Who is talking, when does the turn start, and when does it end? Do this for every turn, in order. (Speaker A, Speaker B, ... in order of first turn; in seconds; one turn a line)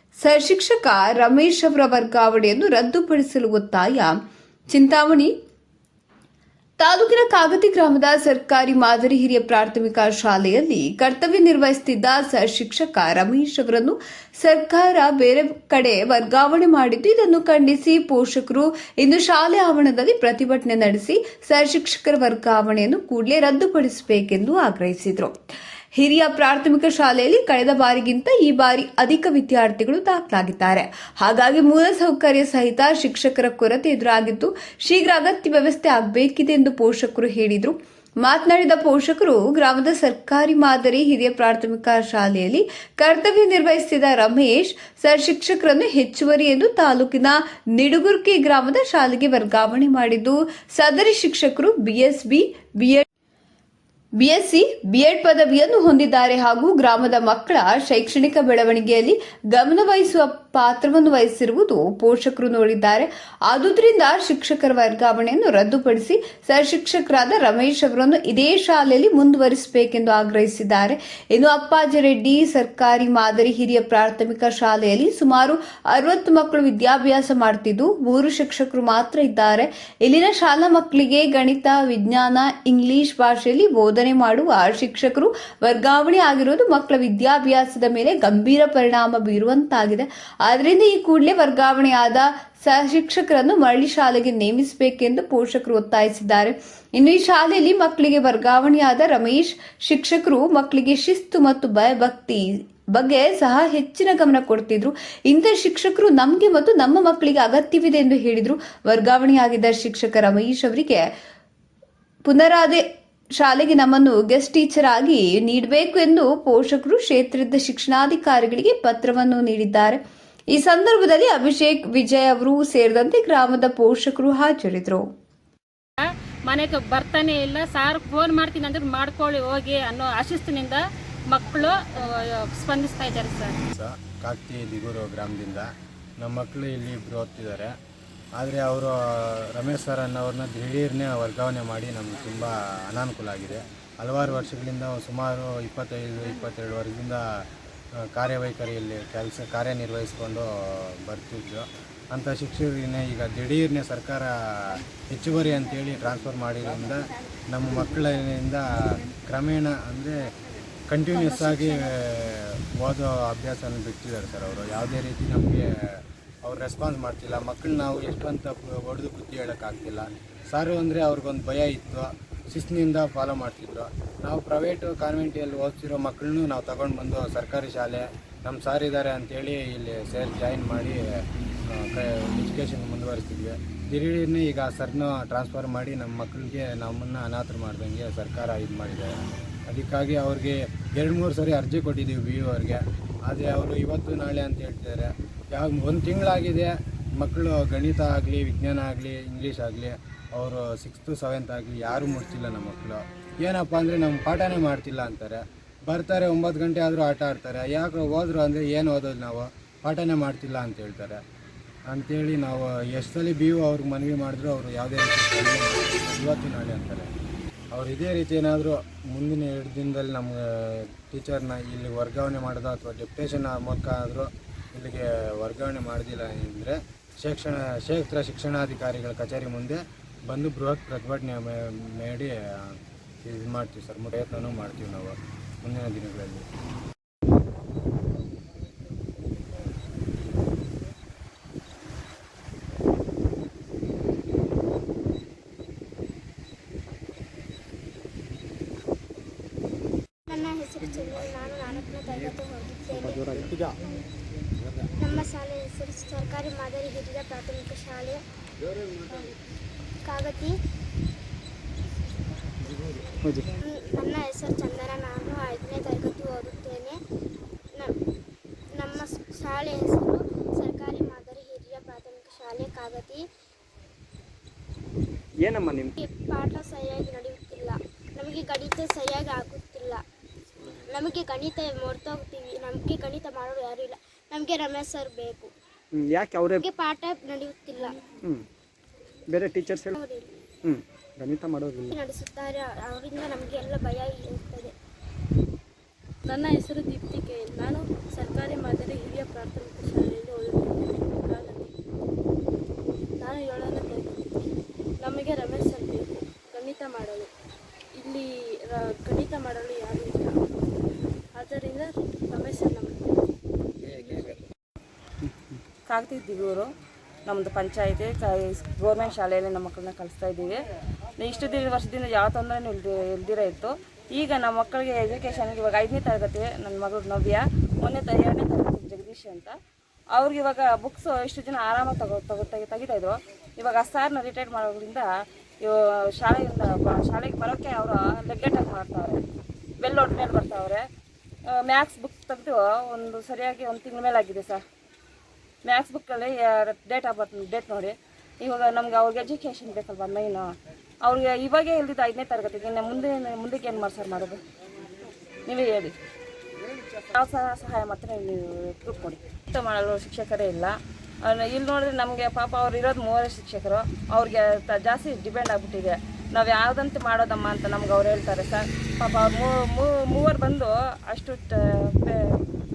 Speaker A: 0.2-4.2
Speaker A: 4.7-5.3
Speaker A: 6.8-25.4
Speaker A: 25.9-53.0
Speaker A: 54.2-111.1
Speaker A: 112.3-120.0
Speaker A: 120.5-125.1
Speaker B: 126.0-133.5
Speaker C: 133.7-135.7
Speaker C: 136.2-137.7
Speaker C: 138.4-147.2
Speaker C: 148.1-160.3
Speaker C: 160.9-211.2
Speaker B: 161.2-161.8
Speaker C: 211.9-217.1
Speaker C: 217.7-236.5
Speaker D: 250.3-253.2
Speaker E: 253.0-253.8
Speaker D: 255.0-258.2
Speaker D: 260.0-260.6
Speaker E: 263.2-263.5
Speaker D: 263.6-267.0
Speaker D: 268.7-273.2
Speaker E: 275.4-275.9
Speaker D: 276.0-280.0
Speaker D: 280.9-285.5
Speaker E: 285.9-286.6
Speaker D: 286.6-288.0
Speaker E: 289.3-290.0
Speaker D: 289.9-290.4
Speaker E: 290.6-291.9
Speaker D: 291.9-294.7
Speaker F: 296.3-301.7
Speaker F: 303.2-304.4
Speaker F: 305.0-307.3
Speaker F: 308.0-310.4
Speaker F: 311.4-313.0
Speaker F: 313.8-314.4
Speaker G: 315.9-316.7
Speaker G: 317.3-320.6
Speaker G: 321.2-329.6
Speaker G: 330.1-335.1
Speaker G: 335.6-339.2
Speaker G: 339.8-340.9
Speaker G: 341.5-344.6
Speaker G: 345.6-350.5
Speaker G: 351.0-354.4
Speaker G: 355.5-355.9
Speaker G: 357.0-372.4